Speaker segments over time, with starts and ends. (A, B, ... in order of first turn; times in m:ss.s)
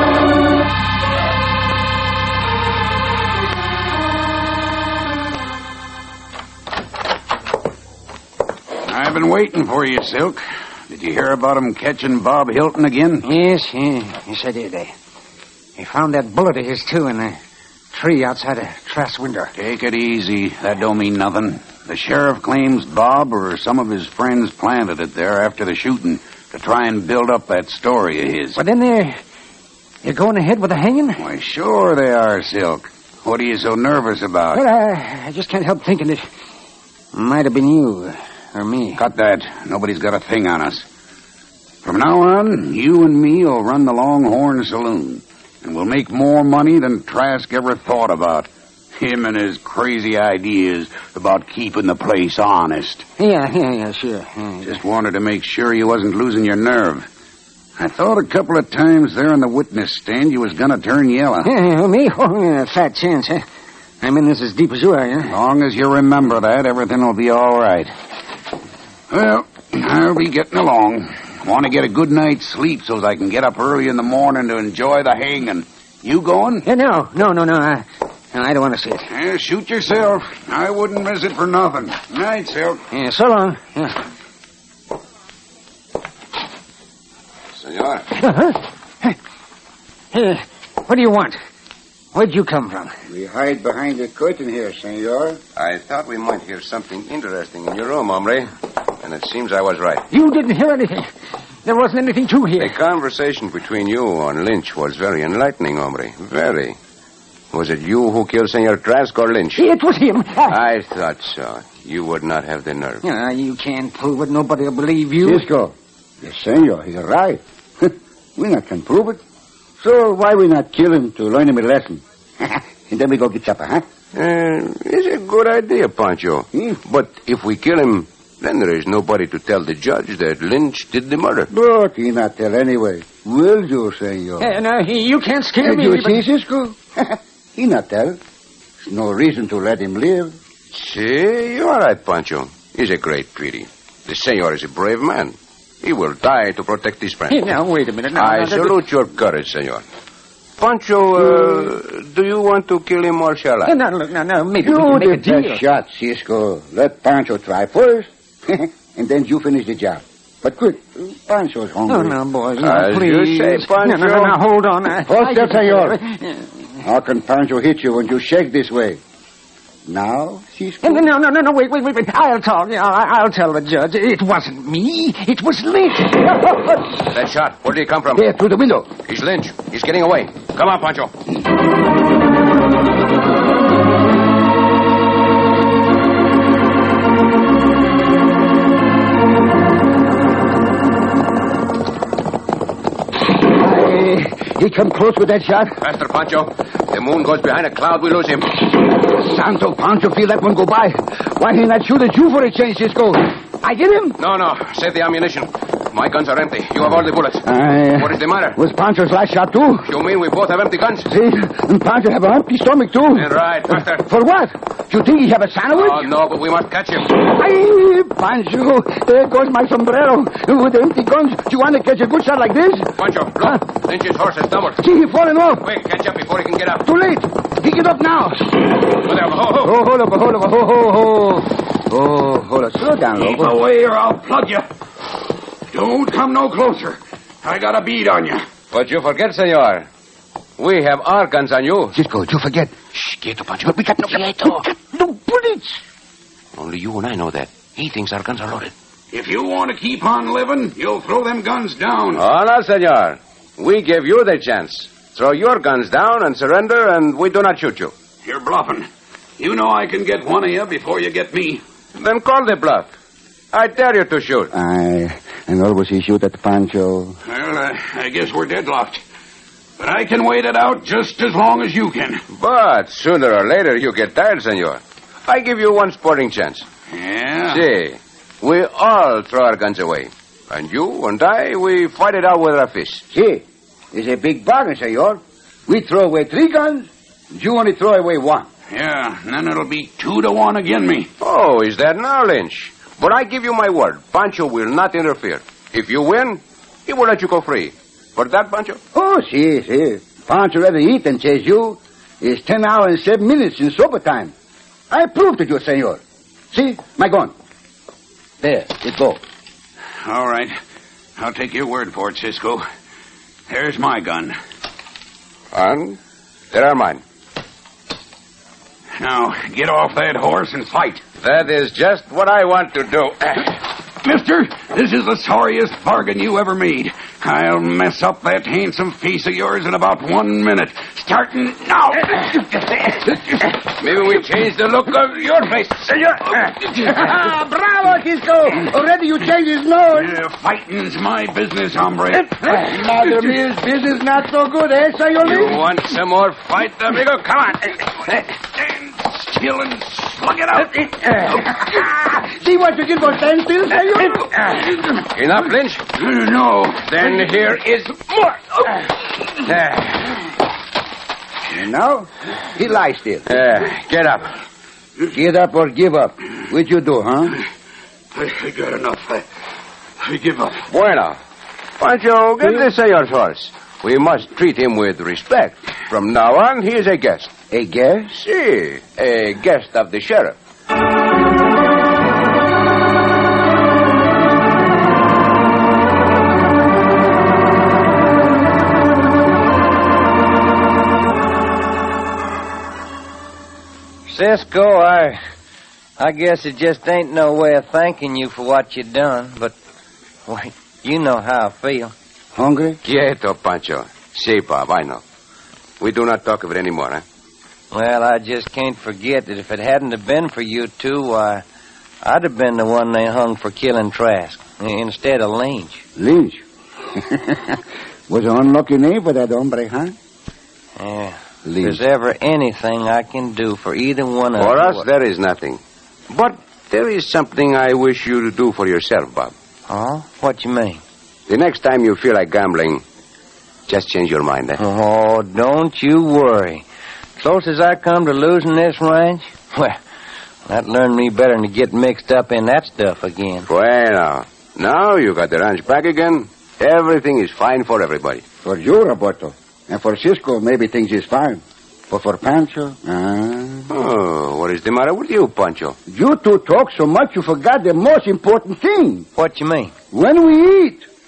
0:08.8-0:13.2 A
0:13.2-0:14.9 B
0:15.8-0:17.4 B
0:17.9-0:19.5 B
0:19.5-0:28.6 A
0:28.6-0:29.2 B
0:30.0-0:31.2 B
0:31.2-0:34.6 A
0:34.5-0:36.2 B
0:37.1-0:39.0 B
0:39.0-0:40.8 A
0:41.8-0:53.0 A
0:53.2-0:54.7 B
0:54.6-0:57.1 A
0:57.8-1:01.5 A
1:01.4-1:03.4 B
1:04.0-1:05.4 B
1:05.3-1:07.9 A
1:09.1-1:16.6 A
1:16.6-1:19.1 B
1:19.1-1:22.8 A
1:22.9-1:24.0 B
1:27.6-1:28.1 C
1:28.1-1:29.1 B
1:30.1-1:31.4 B
1:32.1-1:32.9 B
1:33.1-1:35.4 D
1:35.6-1:40.0 C
1:40.1-1:41.1 B
1:41.6-1:42.8 B
1:42.6-1:46.8 C
1:47.5-1:49.6 C
1:49.6-1:50.6 B
1:50.5-1:53.0 C
1:53.0-1:55.4 B
1:55.2-1:59.2 D
1:59.8-2:03.8 D
2:04.1-2:11.5 C
2:11.5-2:14.6 D
2:14.4-2:16.2 B
2:15.6-2:18.2 D
2:18.8-2:20.3 D
2:20.7-2:27.5 C
2:27.3-2:28.8 B
2:28.1-2:29.8 C
2:30.6-2:33.7 C
2:33.6-2:35.6 B
2:34.6-2:42.2 D
2:41.9-2:46.4 B
2:42.6-2:44.4 C
2:45.0-2:46.0 D
2:46.8-2:49.0 D
2:49.9-2:51.1 D
2:50.8-2:56.8 B
2:57.1-2:58.3 C
2:58.2-2:58.9 D
2:59.0-3:01.1 C
3:13.4-3:15.8 D
3:15.8-3:18.8 C
3:18.8-3:24.2 D
3:24.2-3:28.6 C
3:27.4-3:29.9 D
3:29.8-3:31.1 C
3:31.1-3:36.1 D
3:33.1-3:34.0 C
3:35.7-3:37.1 C
3:37.1-3:43.6 D
3:43.0-3:44.8 C
3:44.8-3:45.6 D
3:45.6-3:46.9 C
3:46.8-3:48.8 D
3:48.9-3:49.8 C
3:49.6-3:53.6 D
3:53.1-3:54.7 A
3:55.7-3:58.4 A
3:58.7-3:59.9 C
4:00.6-4:02.0 C
4:01.9-4:02.8 D
4:02.9-4:04.6 C
4:04.1-4:05.8 D
4:06.5-4:08.7 C
4:09.1-4:12.2 A
4:12.1-4:17.9 C
4:18.2-4:18.9 A
4:19.4-4:21.6 A
4:22.0-4:22.9 C
4:23.5-4:24.5 C
4:24.5-4:27.2 D
4:27.2-4:29.0 A
4:29.8-4:32.2 A
4:32.3-4:36.6 C
4:36.9-4:37.6 A
4:37.5-4:43.0 C
4:43.1-4:48.5 D
4:48.7-4:51.1 A
4:51.2-4:58.8 C
4:58.9-5:04.3 D
5:04.9-5:07.3 D
5:08.4-5:09.2 D
5:10.0-5:10.5 A
5:11.2-5:12.6 A
5:13.5-5:14.3 A
5:15.5-5:16.0 C
5:16.5-5:17.0 C
5:19.0-5:21.0 A
5:21.2-5:23.6 C
5:24.0-5:33.4 A
5:33.5-5:37.0 C
5:36.8-5:40.1 D
5:39.9-5:43.3 A
5:42.4-5:45.7 D
5:45.2-5:48.1 C
5:48.2-5:51.9 A
5:51.3-5:54.3 D
5:54.4-5:55.0 A
5:55.0-5:55.8 C
5:55.9-5:57.4 A
5:56.8-5:58.8 C
5:59.3-6:00.2 C
6:01.5-6:03.3 D
6:03.2-6:04.3 C
6:05.1-6:07.4 D
6:08.1-6:09.2 A
6:10.0-6:10.7 A
6:10.7-6:11.2 C
6:11.8-6:17.3 C
6:17.5-6:18.1 D
6:18.1-6:20.3 C
6:34.1-6:35.2 E
6:36.0-6:39.5 E
6:40.3-6:41.9 E
6:42.3-6:42.8 D
6:42.8-6:45.0 C
6:45.8-6:47.0 C
6:47.7-6:51.4 E
6:52.0-6:55.8 E
6:56.0-6:59.9 D
7:00.8-7:04.8 E
7:01.4-7:01.8 D
7:04.4-7:09.3 C
7:09.7-7:10.8 E
7:11.3-7:12.8 C
7:13.7-7:14.6 C
7:14.6-7:16.6 E
7:17.2-7:19.8 E
7:20.4-7:23.5 E
7:23.5-7:28.2 C
7:28.4-7:33.7 D
7:33.7-7:35.8 C
7:35.9-7:39.1 D
7:39.2-7:39.7 E
7:39.9-7:40.8 D